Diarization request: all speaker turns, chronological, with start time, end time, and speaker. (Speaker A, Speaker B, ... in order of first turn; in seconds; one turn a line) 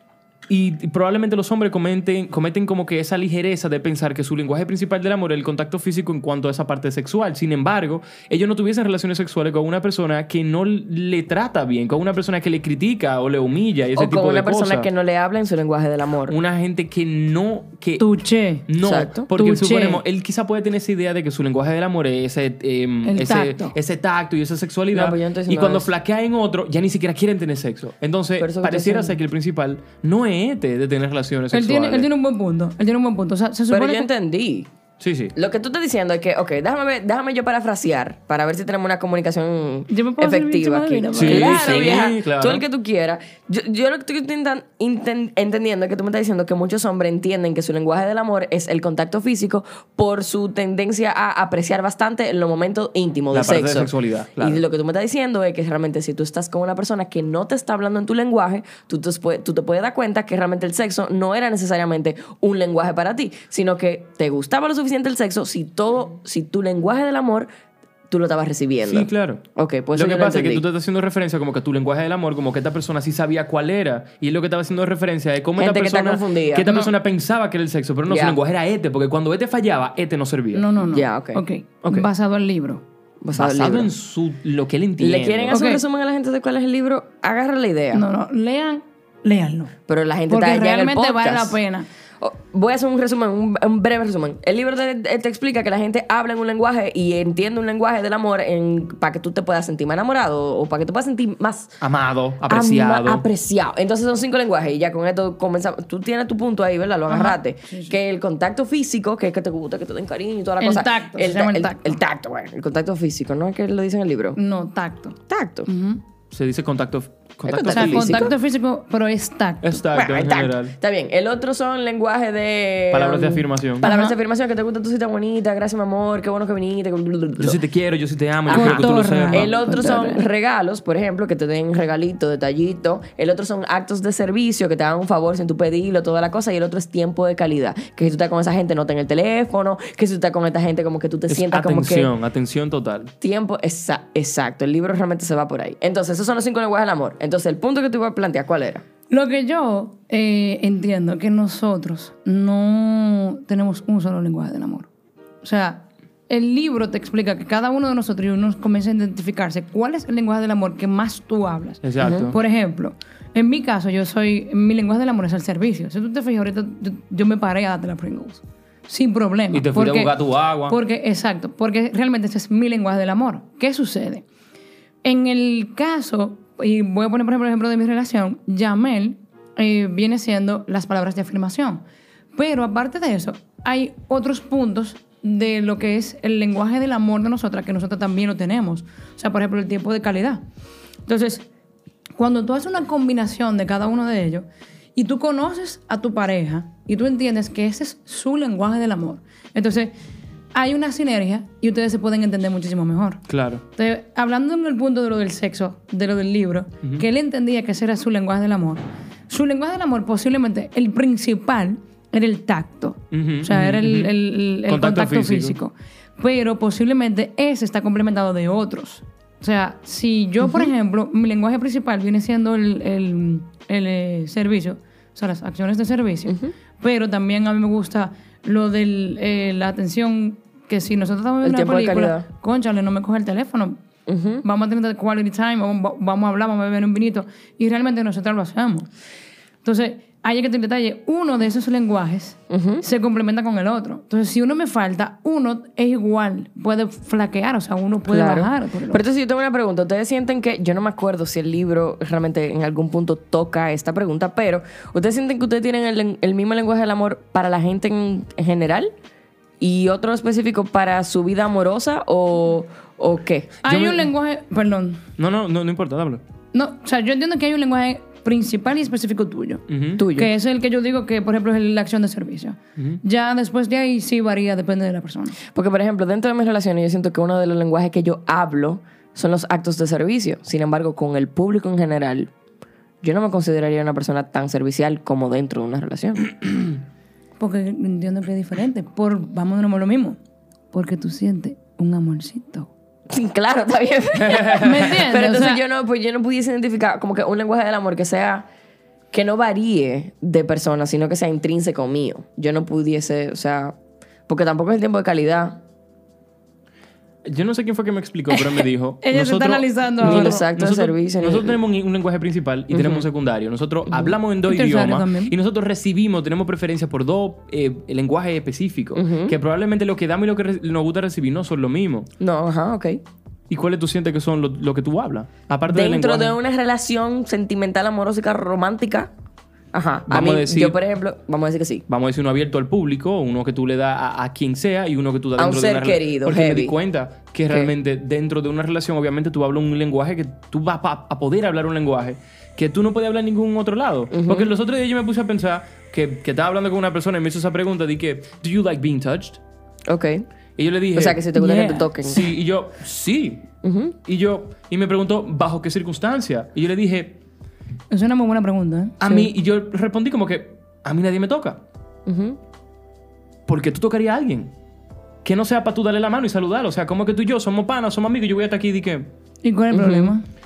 Speaker A: 0.5-14.9
Speaker B: 14.0-16.4
Speaker A: 16.3-18.1
Speaker C: 18.0-18.6
Speaker A: 18.7-32.1
Speaker B: 18.8-19.3
Speaker C: 19.3-20.0
Speaker C: 23.1-23.8
Speaker B: 24.9-25.9
Speaker B: 28.4-29.2
Speaker C: 31.5-34.1
Speaker B: 33.7-34.7
Speaker A: 35.0-35.3
Speaker B: 35.4-67.5
Speaker C: 39.9-41.8
Speaker A: 41.2-42.6
Speaker A: 53.3-54.6
Speaker B: 68.1-70.7
Speaker A: 68.9-69.4
Speaker A: 70.0-80.7
Speaker B: 75.6-76.9
Speaker B: 78.1-78.4
Speaker C: 80.5-82.8
Speaker B: 80.9-81.4
Speaker B: 83.2-83.9
Speaker A: 83.3-85.6
Speaker B: 85.0-88.1
Speaker C: 85.5-85.8
Speaker C: 87.9-89.7
Speaker B: 89.9-91.6
Speaker C: 90.3-91.9
Speaker B: 92.2-101.8
Speaker A: 101.8-103.2
Speaker B: 102.5-114.4
Speaker C: 107.1-108.0
Speaker C: 110.6-112.0
Speaker C: 114.4-116.0
Speaker B: 115.3-115.7
Speaker A: 116.3-118.3
Speaker B: 117.5-118.3
Speaker C: 117.7-119.8
Speaker A: 119.6-120.7
Speaker B: 119.9-127.6
Speaker A: 122.9-123.9
Speaker C: 123.8-124.2
Speaker A: 127.4-129.5
Speaker B: 128.5-142.1
Speaker C: 128.5-130.2
Speaker A: 141.3-143.1
Speaker B: 143.2-148.8
Speaker C: 149.1-154.9
Speaker C: 155.4-170.1
Speaker A: 161.8-162.4
Speaker B: 162.0-162.3
Speaker A: 169.5-170.8
Speaker C: 170.7-174.3
Speaker C: 175.0-181.8
Speaker C: 182.3-190.4
Speaker C: 191.1-191.5
Speaker C: 192.2-194.4
Speaker C: 195.0-199.9
Speaker C: 200.5-203.2
Speaker A: 203.3-203.6
Speaker C: 203.8-233.8
Speaker A: 213.1-214.1
Speaker A: 214.7-215.6
Speaker B: 220.4-220.7
Speaker B: 226.3-226.5
Speaker B: 231.4-232.3
Speaker B: 234.1-234.4
Speaker C: 234.4-238.9
Speaker C: 239.6-249.0
Speaker B: 242.5-242.8
Speaker B: 248.1-258.9
Speaker B: 259.6-263.6
Speaker C: 263.6-265.0
Speaker A: 263.6-264.1
Speaker A: 265.2-266.2
Speaker C: 266.5-275.4
Speaker A: 269.7-270.1
Speaker B: 270.0-270.3
Speaker B: 275.5-282.3
Speaker B: 283.0-286.3
Speaker C: 287.4-290.2
Speaker C: 290.7-292.7
Speaker B: 293.1-298.5
Speaker A: 294.2-294.9
Speaker C: 294.6-295.6
Speaker B: 299.1-303.8
Speaker B: 304.3-305.6
Speaker A: 307.3-322.1
Speaker C: 308.3-310.4
Speaker B: 310.0-311.6
Speaker B: 312.7-313.1
Speaker B: 313.9-314.2
Speaker C: 314.5-315.3
Speaker B: 318.9-319.4
Speaker B: 322.2-323.0
Speaker A: 323.5-326.4
Speaker B: 325.7-329.1
Speaker B: 329.7-331.9
Speaker A: 330.1-330.8
Speaker A: 331.9-349.4
Speaker B: 335.4-336.8
Speaker B: 344.1-344.5
Speaker B: 349.9-350.2
Speaker A: 350.6-351.2
Speaker B: 350.9-352.3
Speaker C: 351.3-351.9
Speaker A: 352.0-353.5
Speaker B: 353.6-353.9
Speaker A: 354.1-357.2
Speaker C: 357.9-359.0
Speaker A: 359.0-361.6
Speaker B: 362.1-362.4
Speaker A: 363.5-364.5
Speaker A: 365.2-369.1
Speaker C: 369.4-370.2
Speaker B: 369.7-370.1